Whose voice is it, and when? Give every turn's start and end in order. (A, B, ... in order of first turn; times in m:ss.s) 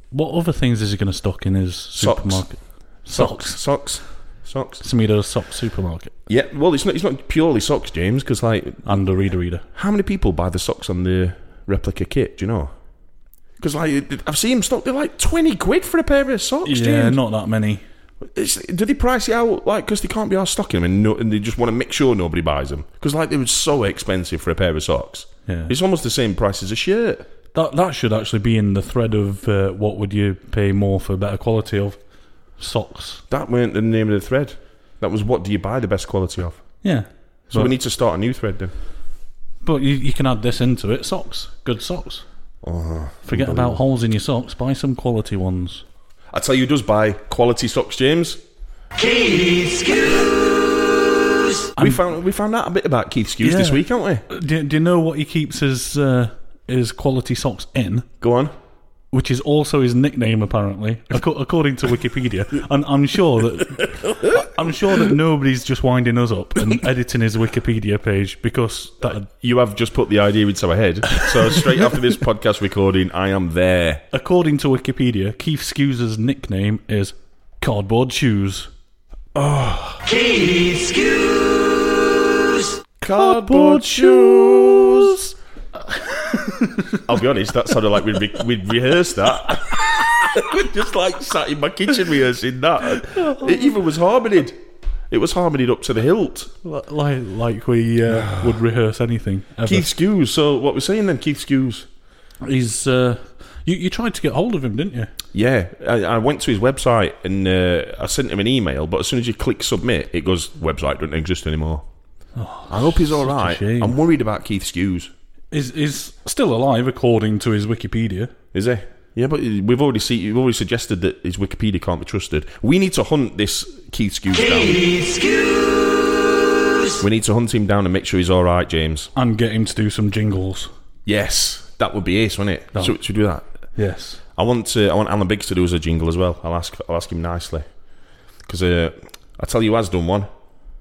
0:00.1-0:03.6 A
0:02.0-0:04.8 B
0:04.8-0:06.1 A
0:06.3-0:09.0 B
0:08.8-0:09.6 A
0:09.7-0:12.8 B
0:13.6-0:17.2 B
0:16.6-0:17.8 A
0:18.2-0:27.3 B
0:25.5-0:25.7 A
0:27.5-0:32.0 A
0:32.6-0:33.2 A
0:33.3-0:36.8 B
0:36.8-0:37.7 A
0:37.5-0:38.7 B
0:39.6-0:42.2 A
0:42.6-0:43.8 B
0:43.3-0:45.8 A
0:46.3-0:48.4 B
0:51.8-0:52.0 A
0:51.8-0:54.2 B
0:53.4-0:58.1 A
0:58.2-0:58.5 B
0:59.1-1:09.3 A
1:09.2-1:14.0 B
1:14.1-1:18.7 A
1:19.4-1:21.1 B
1:23.0-1:25.2 B
1:23.0-1:25.3 A
1:26.0-1:27.0 A
1:27.0-1:36.5 B
1:33.0-1:33.7 A
1:36.6-1:39.9 A
1:38.1-1:38.6 B
1:39.6-1:41.9 B
1:42.4-1:45.1 A
1:45.3-1:51.9 B
1:52.4-1:54.0 A
1:52.7-1:55.1 B
1:55.5-1:58.3 A
1:58.5-2:05.2 B
2:07.0-2:09.1 B
2:09.2-2:10.7 A
2:11.1-2:13.5 B
2:13.8-2:14.2 A
2:14.4-2:17.7 B
2:18.5-2:20.3 B